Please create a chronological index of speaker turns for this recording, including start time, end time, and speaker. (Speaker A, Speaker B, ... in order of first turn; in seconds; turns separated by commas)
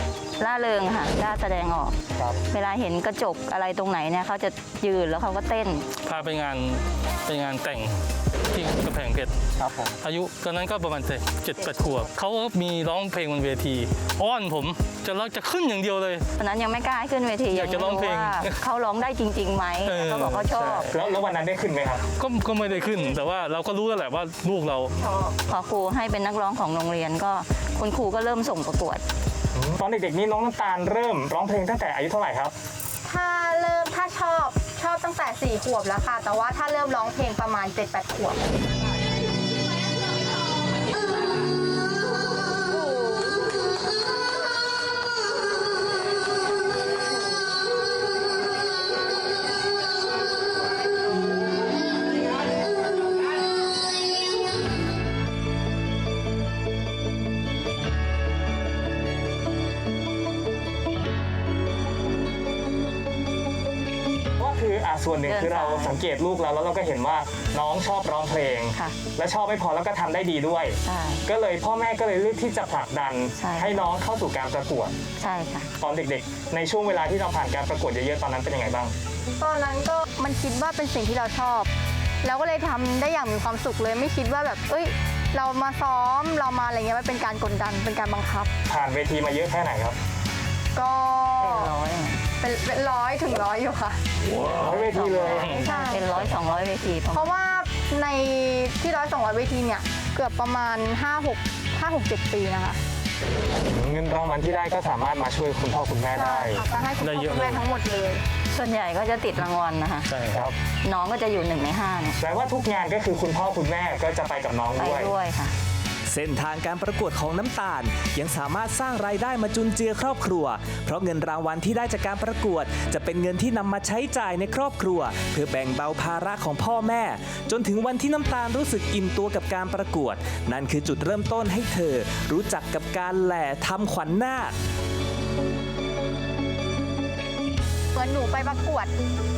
Speaker A: 0.4-2.0, Speaker A: 2.5-5.9, Speaker B: 6.0-9.3, Speaker C: 9.6-9.9, Speaker B: 10.0-16.2, Speaker A: 11.6-12.1, Speaker A: 16.4-20.9, Speaker B: 17.5-18.6, Speaker B: 19.9-20.9, Speaker C: 20.9-22.0, Speaker B: 22.1-25.0, Speaker A: 25.0-29.0, Speaker C: 29.5-32.5, Speaker D: 33.0-38.4, Speaker C: 64.4-74.9, Speaker A: 65.3-66.0, Speaker A: 68.7-69.0, Speaker A: 70.8-71.3, Speaker A: 73.3-73.7, Speaker A: 75.2-75.7, Speaker C: 75.8-78.9, Speaker D: 79.4-81.7, Speaker D: 82.2-88.5, Speaker C: 88.7-90.0, Speaker D: 90.7-91.7, Speaker A: 91.4-92.2, Speaker D: 92.4-94.0, Speaker B: 94.3-95.7, Speaker C: 94.5-95.6, Speaker A: 94.9-97.3, Speaker D: 95.6-96.2, Speaker D: 97.1-102.8, Speaker C: 103.6-106.6, Speaker D: 106.1-108.2, Speaker B: 107.0-107.6, Speaker A: 108.5-110.2, Speaker B: 110.1-110.5, Speaker A: 110.8-112.2, Speaker C: 112.2-115.1, Speaker A: 114.8-115.5, Speaker E: 116.1-134.5, Speaker D: 137.9-138.9